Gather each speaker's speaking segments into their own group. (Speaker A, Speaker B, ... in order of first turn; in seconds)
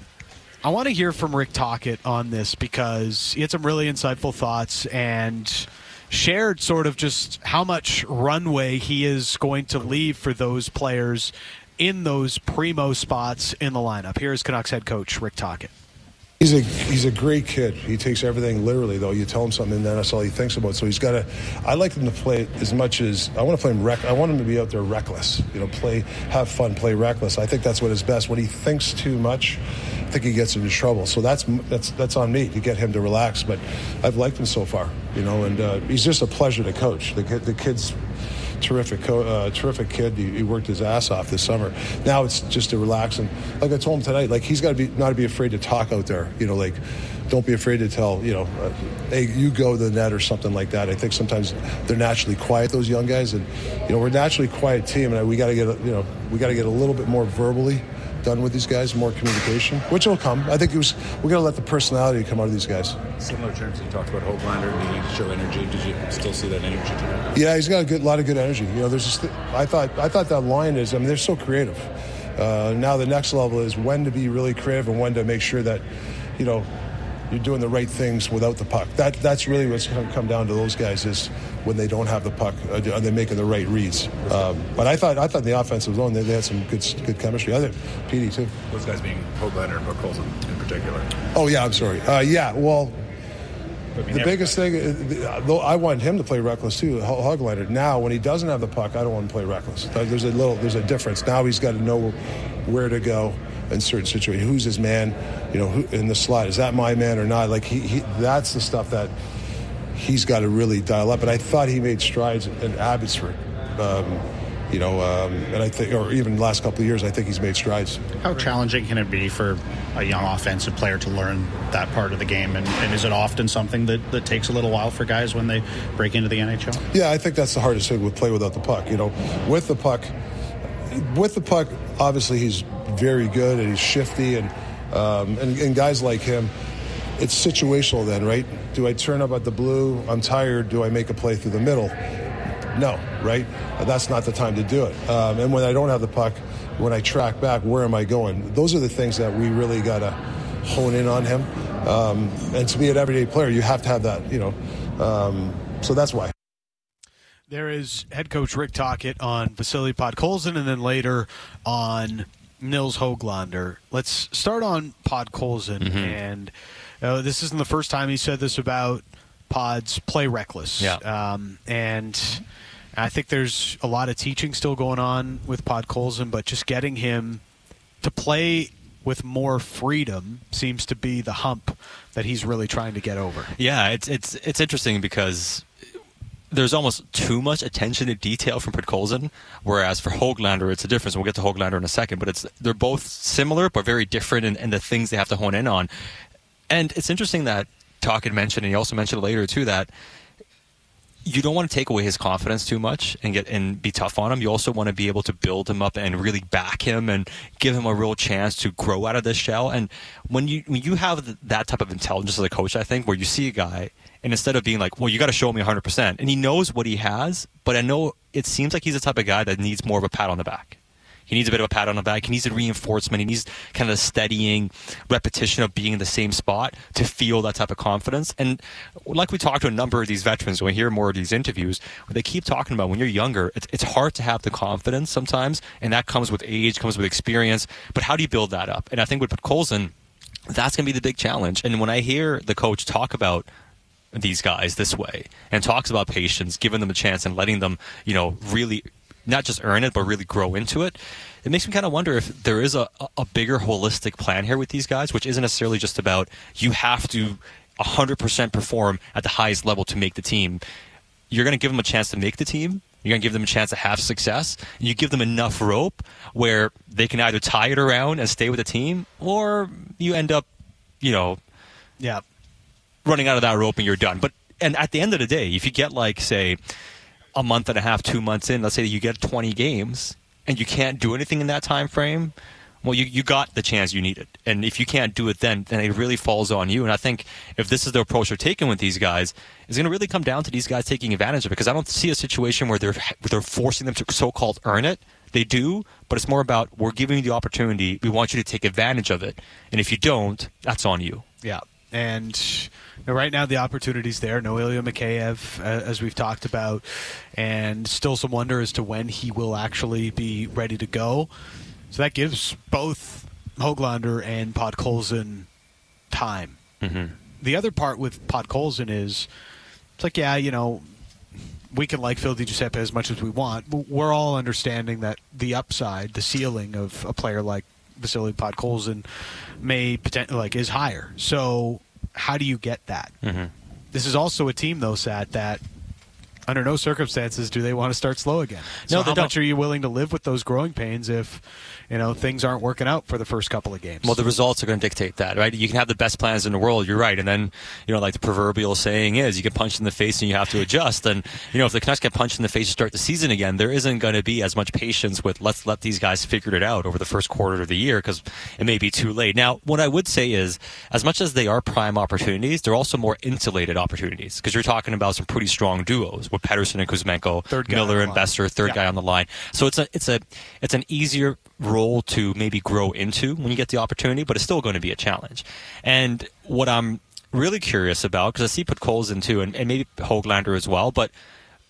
Speaker A: 0.6-15.7, 157.5-172.4, 172.9-177.4, 178.0-183.5, 301.4-311.3, 311.9-315.5, 316.1-316.6, 317.4-319.3, 320.0-320.9, 321.7-333.1, 333.9-335.6, 336.5-344.1, 367.5-368.8
Speaker B: 16.4-38.0, 38.6-63.0, 67.3-75.8, 76.4-76.7, 77.3-88.5, 91.3-93.0, 94.1-109.1, 109.9-118.0, 126.9-130.1, 130.9-136.5, 137.2-141.9, 142.7-156.3
Speaker C: 63.2-67.3, 88.7-91.2, 94.0-94.6
Speaker D: 118.2-126.8
Speaker E: 165.8-166.2, 183.6-185.7, 186.5-195.9, 196.7-199.9, 201.2-239.9, 240.5-243.4, 244.1-260.6, 261.3-270.4, 271.0-271.4, 273.0-276.6, 277.3-301.2, 316.8-317.1, 333.2-333.5, 338.9-339.3, 344.0-381.1